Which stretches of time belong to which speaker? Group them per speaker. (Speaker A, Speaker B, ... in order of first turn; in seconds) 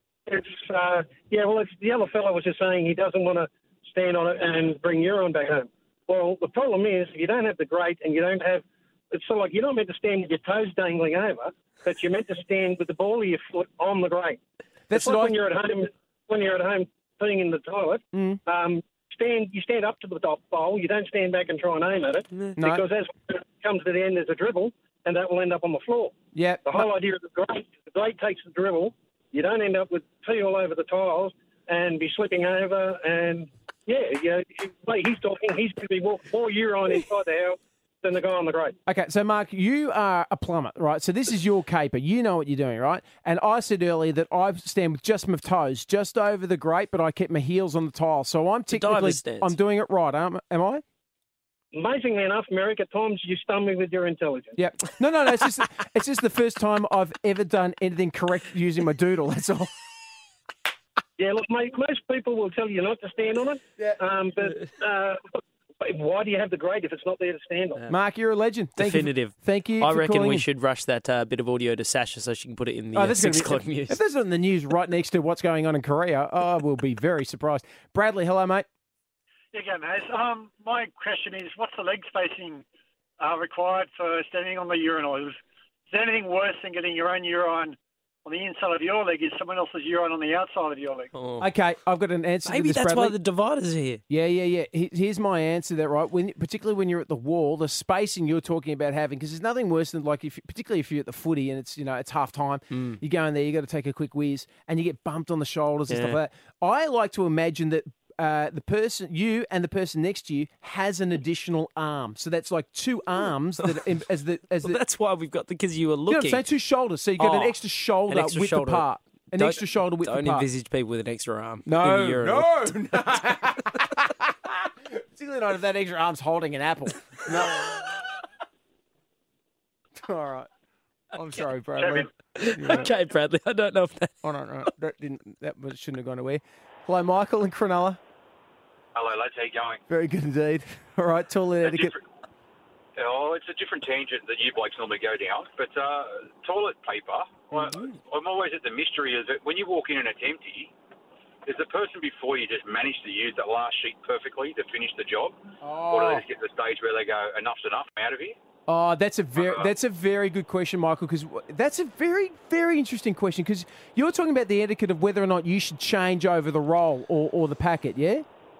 Speaker A: 0.3-14.4, 14.9-38.7, 51.7-54.6, 61.2-67.8
Speaker B: 14.9-15.3, 18.1-18.4, 22.6-22.8, 26.3-26.8, 38.9-50.8, 54.6-59.7, 67.9-70.5, 72.9-78.7, 91.4-93.2, 94.1-114.8, 116.1-120.5, 121.6-127.9, 130.0-130.5, 131.1-132.9, 134.2-138.0, 139.9-141.9, 147.5-148.0, 155.6-156.2, 158.7-168.2
Speaker C: 48.7-49.5, 68.8-74.0, 91.1-91.5, 92.5-94.0, 102.7-103.0, 105.9-106.2, 114.6-116.4, 117.2-122.8, 132.3-134.1
Speaker D: 79.5-82.6, 83.2-85.4, 85.9-91.1
Speaker E: 138.9-139.8, 141.7-142.0, 143.0-150.7, 151.4-155.4, 155.9-158.4, 159.4-159.7